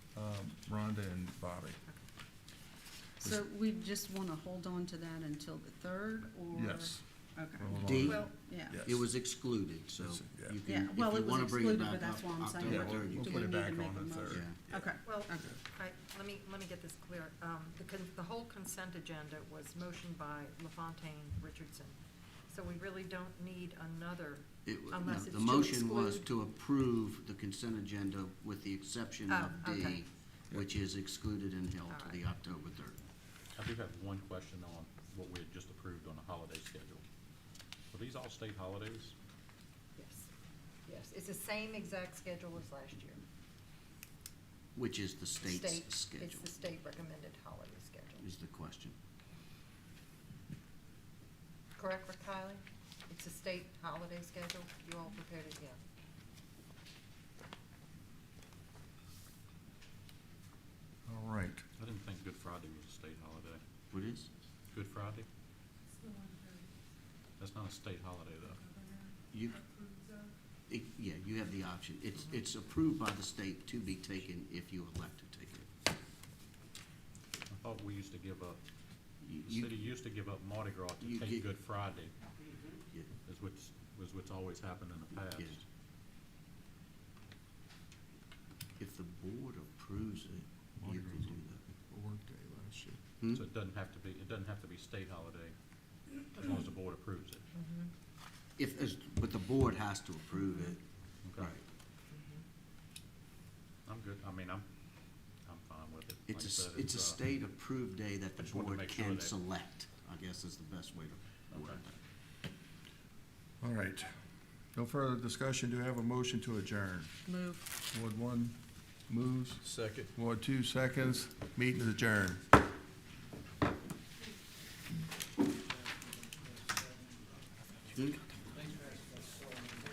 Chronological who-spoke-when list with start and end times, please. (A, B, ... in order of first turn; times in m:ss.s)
0:00.1-0:01.8 A
0:03.2-0:08.8 B
0:06.5-0:07.0 A
0:07.6-0:09.0 A
0:07.8-0:08.3 C
0:08.0-0:08.3 D
0:08.8-0:13.5 C
0:10.0-0:10.6 A
0:10.6-0:15.6 B
0:12.6-0:14.5 A
0:14.3-0:14.6 C
0:15.0-0:26.3 D
0:24.6-0:33.0 C
0:29.3-0:30.0 D
0:31.9-0:32.2 D
0:33.6-0:37.0 E
0:37.9-0:39.1 E
0:40.0-0:40.3 D
0:40.8-0:43.2 D
0:44.7-0:46.5 C
0:45.4-0:48.2 D
0:48.2-0:49.0 C
0:51.8-0:55.8 D
1:01.1-1:01.6 A
1:01.8-1:03.6 E
1:03.9-1:04.3 C
1:04.7-1:05.3 E
1:06.1-1:06.6 B
1:07.4-1:08.6 E
1:09.3-1:09.6 C
1:09.7-1:10.2 B
1:10.7-1:15.7 C
1:17.5-1:18.6 E
1:19.2-1:19.7 C
1:19.4-1:22.1 E
1:21.0-1:21.4 C
1:23.2-1:25.6 E
1:25.3-1:25.6 C
1:28.8-1:31.6 C
1:30.8-1:33.0 A
1:33.2-1:33.4 C
1:33.3-1:35.5 E
1:36.3-1:37.4 E
1:37.5-1:37.9 D
1:38.6-1:40.8 C
1:41.2-1:41.5 E
1:41.4-1:41.6 C
1:42.1-1:42.4 D
1:43.8-1:44.6 E
1:45.4-1:47.2 E
1:46.3-1:52.0 C
1:48.4-1:49.3 E
1:51.5-1:51.8 E
1:53.6-1:54.1 A
1:54.7-1:57.1 A
1:57.2-1:57.7 B
1:57.9-1:58.6 A
1:59.1-1:59.6 A
1:59.6-2:00.1 E
2:00.1-2:02.4 A